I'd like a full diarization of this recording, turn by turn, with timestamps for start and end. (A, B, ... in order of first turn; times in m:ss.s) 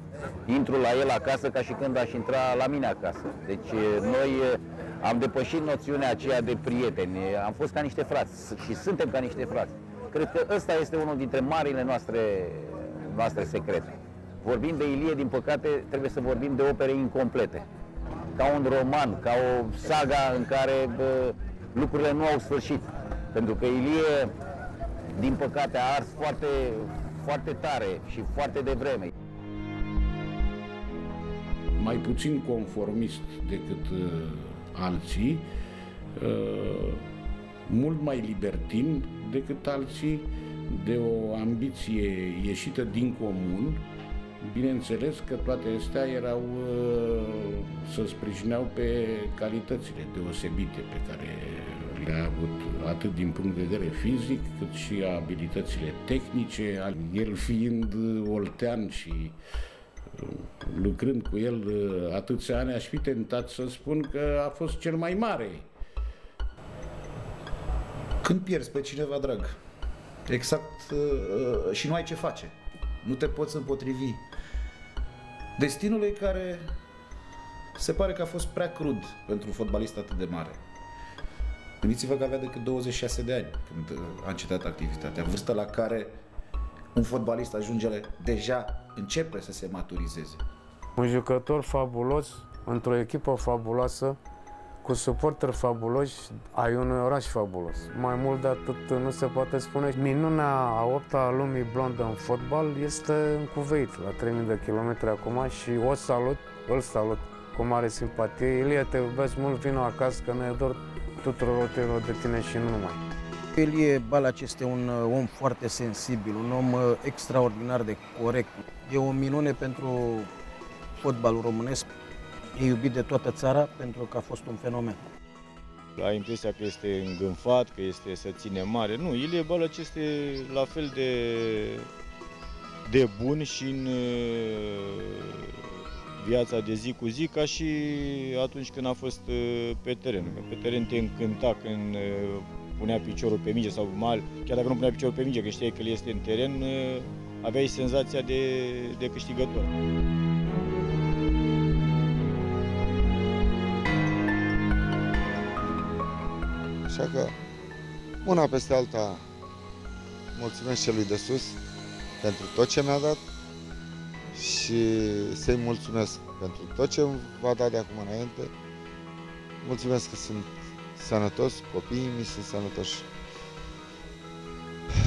0:00.5-0:17.6 A
0:18.4-0:24.3 A
0:25.1-0:29.1 A
0:31.8-0:35.5 B
0:36.2-0:37.1 B
0:37.7-0:43.9 B
0:44.4-0:59.4 B
1:00.1-1:05.7 B
1:08.2-1:09.6 C
1:10.3-1:14.2 C
1:15.6-1:16.7 C
1:17.8-1:20.6 C
1:21.8-1:26.2 C
1:26.9-1:30.4 C
1:31.0-1:34.2 D
1:34.8-1:53.0 D
1:53.6-2:00.3 E
2:01.0-2:01.9 E
2:02.6-2:05.0 E
2:06.0-2:11.9 F
2:12.9-2:15.5 F
2:16.2-2:29.7 F
2:36.9-2:37.4 G
2:38.2-2:39.2 G
2:40.3-2:41.6 G
2:42.2-2:43.2 G
2:44.3-2:48.5 G
2:49.6-2:53.1 G